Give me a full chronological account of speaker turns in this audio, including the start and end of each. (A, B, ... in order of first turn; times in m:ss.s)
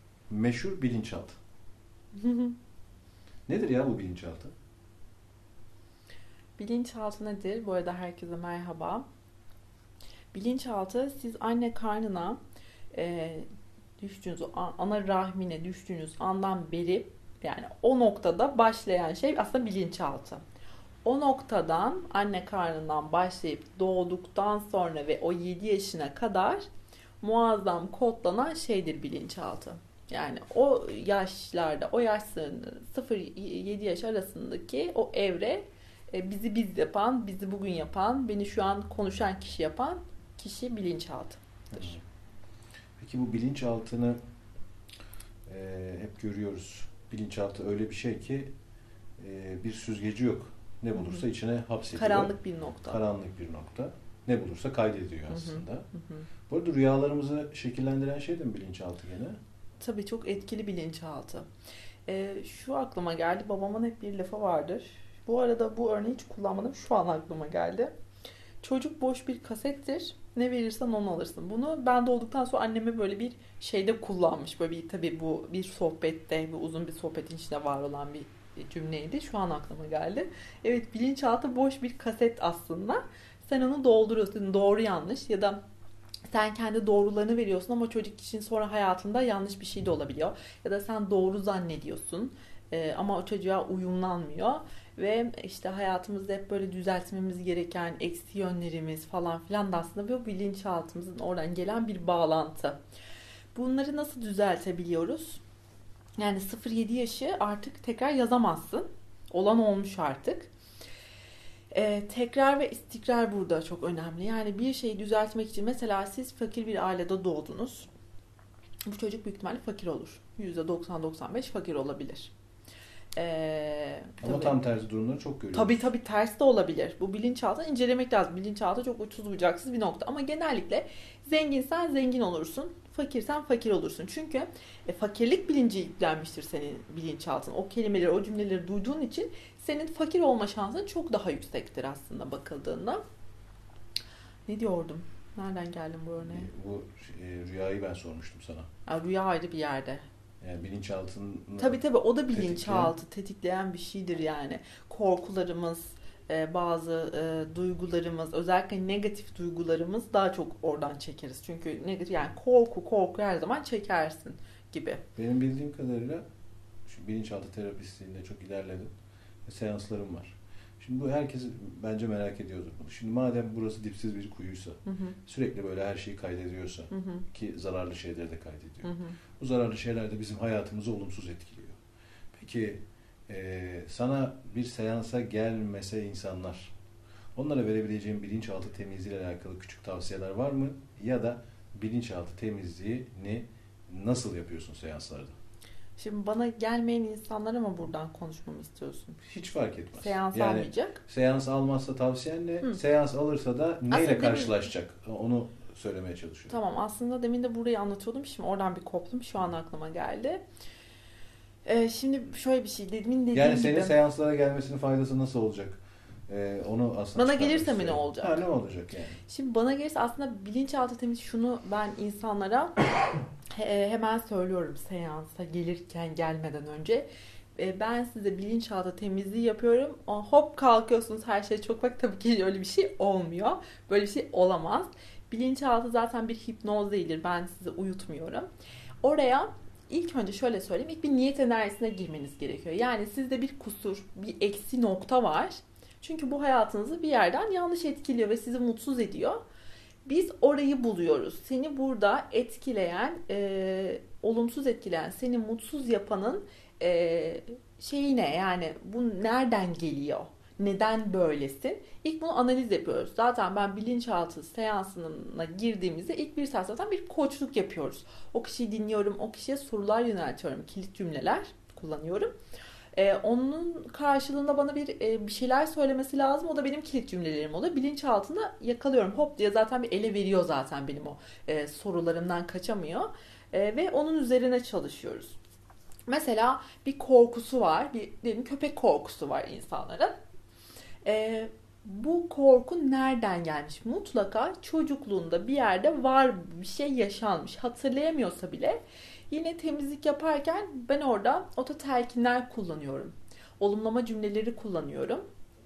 0:00.3-0:01.4 A
0:02.1-0:02.6 B
0:03.5-0:04.5 A
0:06.6-0:09.0 B
0:10.3-0:12.4 B
0:12.9-0:13.4 B
0:14.0-0:20.4 B
0:21.0-0:26.6 B
0:27.2-0:41.4 B
0:41.7-0:42.0 A
0:43.0-0:44.2 A
0:45.5-0:48.5 A
0:49.2-0:55.9 A
0:50.9-0:51.2 B
0:51.9-0:53.0 B
0:55.3-0:56.2 B
0:56.5-0:59.4 A
0:59.8-1:01.5 B
1:02.1-1:07.9 B
1:08.6-1:25.6 B
1:26.3-1:42.8 B
1:43.5-1:45.4 B
1:46.2-1:50.5 B
1:51.7-1:57.9 B
1:58.9-2:02.3 B
2:03.2-2:04.6 B
2:04.2-2:05.8 A
2:05.5-2:23.0 B
2:24.5-2:26.5 B
2:26.2-2:28.7 A
2:28.9-2:30.0 B
2:30.4-2:32.9 A
2:31.6-2:45.0 B
2:45.2-2:46.2 A
2:46.8-2:48.9 A
2:49.4-3:01.8 A
2:54.8-2:55.2 B
2:56.9-2:57.2 B
2:58.8-2:59.2 B
3:02.3-3:06.7 A
3:07.4-3:15.4 A
3:16.0-3:19.2 B
3:19.2-3:26.6 A
3:19.9-3:21.0 B
3:23.9-3:24.5 B
3:26.5-3:30.4 B
3:31.6-3:34.0 B
3:33.3-3:39.2 A
3:37.1-3:38.4 B
3:39.3-3:58.5 B
3:59.0-4:09.4 B
4:10.0-4:32.3 B
4:32.9-4:45.4 B
4:46.1-4:50.1 B
4:51.0-5:05.2 B